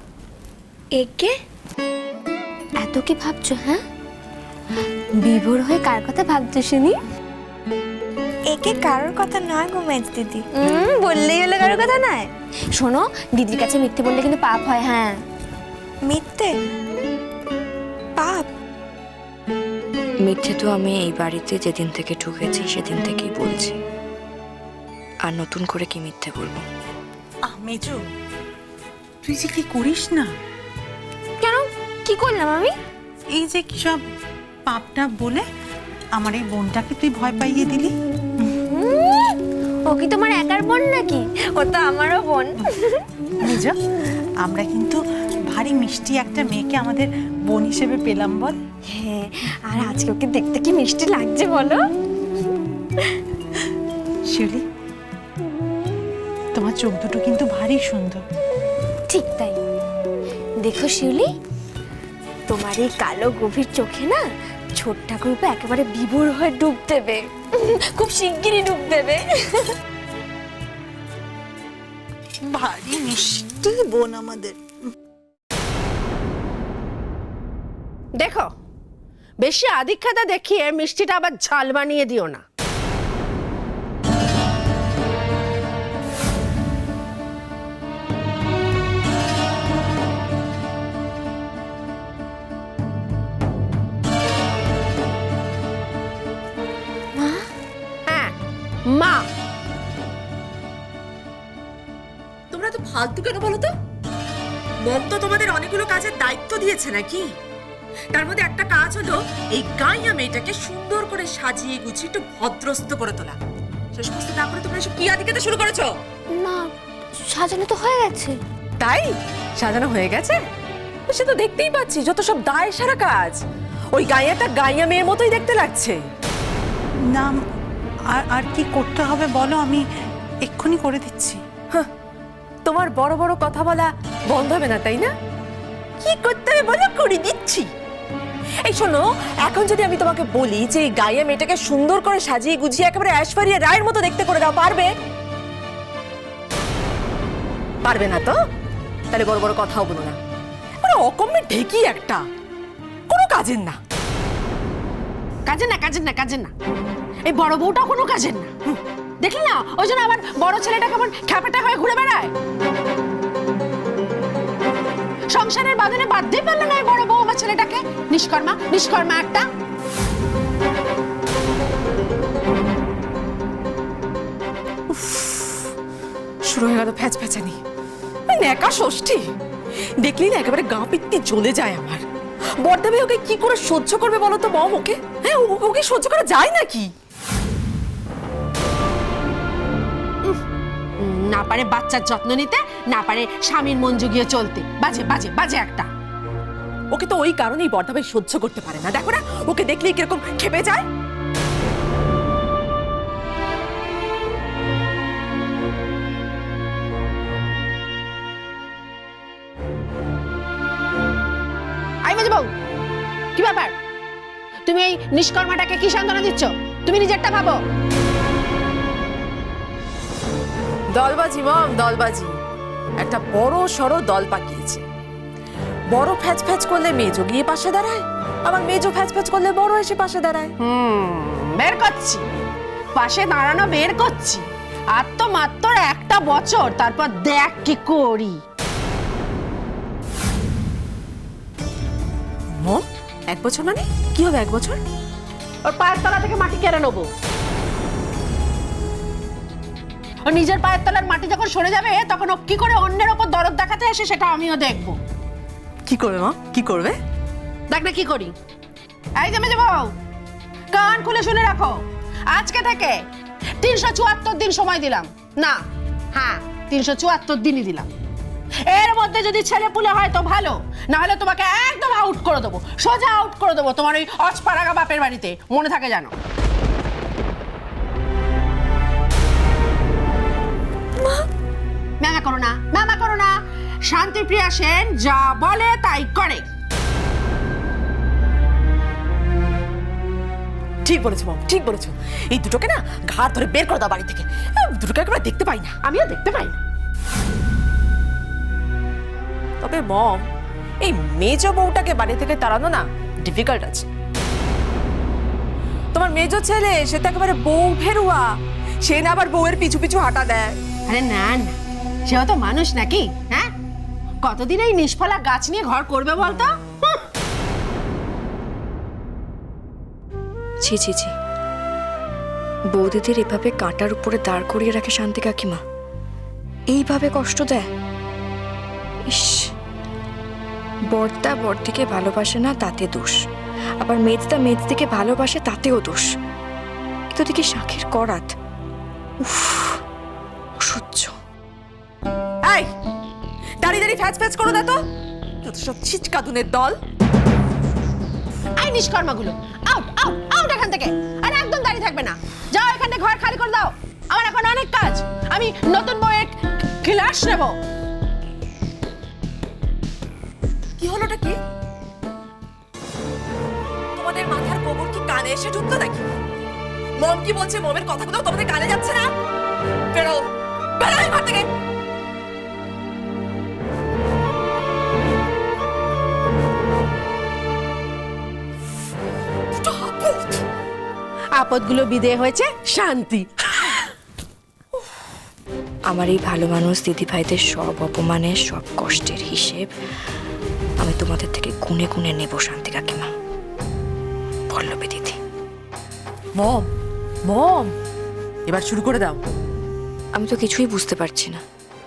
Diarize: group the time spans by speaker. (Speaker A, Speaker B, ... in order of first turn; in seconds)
Speaker A: 1.0-1.3, 2.8-3.8, 5.2-7.0, 9.5-15.2, 31.4-32.7, 38.7-43.1, 48.9-51.9, 59.1-59.6, 60.6-61.3, 62.5-64.2, 64.8-69.7, 97.2-97.5, 116.3-118.4
Speaker B: 8.5-10.3, 16.1-16.5, 18.2-18.5
Speaker C: 20.2-23.8, 25.2-26.6, 320.6-321.1, 322.7-325.6, 326.7-327.7, 329.1-329.5, 330.9-333.2, 333.8-336.1, 337.1-338.3, 339.2-339.8, 340.6-341.1, 385.9-389.7, 390.8-393.1, 394.5-395.2, 400.1-401.4
Speaker D: 27.5-28.0, 29.2-30.3, 33.3-34.0, 34.7-35.5, 36.1-37.9, 43.4-43.8, 44.4-48.6, 54.3-54.6, 56.5-58.2, 72.5-74.6, 127.1-127.4, 128.1-129.8, 130.4-131.4
Speaker E: 78.2-78.5, 79.4-82.4, 98.1-98.3, 98.9-99.2, 155.5-156.5, 157.3-158.5, 159.2-162.3, 165.3-169.4, 191.0-195.9, 212.1-212.5, 213.4-213.7, 214.7-217.6, 230.7-232.2, 233.0-234.4, 235.0-238.3, 245.7-247.1, 250.3-255.0, 257.7-258.3, 259.2-259.9, 260.7-261.8, 262.3-262.9, 263.6-265.6, 266.1-267.9, 268.7-276.1, 282.0-283.3, 283.9-286.4, 295.9-296.6, 310.9-311.6, 312.1-313.5, 314.2-316.5, 348.6-357.5, 381.4-383.8
Speaker F: 102.5-103.7, 104.8-107.3, 108.1-113.4, 114.0-115.9, 118.8-120.4, 121.1-123.4, 123.9-126.0, 132.7-135.1, 136.0-137.7, 138.7-144.9, 147.8-148.4, 149.1-150.2, 150.8-152.2, 153.1-153.8, 174.9-175.6, 176.4-177.6, 178.3-179.3, 180.0-182.0, 182.6-186.9, 196.9-200.9, 220.9-222.4, 223.0-224.8, 225.9-230.5, 242.6-244.8, 255.9-257.0, 290.9-295.8, 299.6-300.3, 300.8-303.9, 305.9-308.3, 308.8-310.6, 342.4-342.7, 343.6-344.8, 345.4-346.8, 360.8-361.4, 364.0-366.1, 367.0-369.1, 369.9-371.5, 379.6-380.4, 396.4-396.6, 397.2-397.7, 398.5-399.2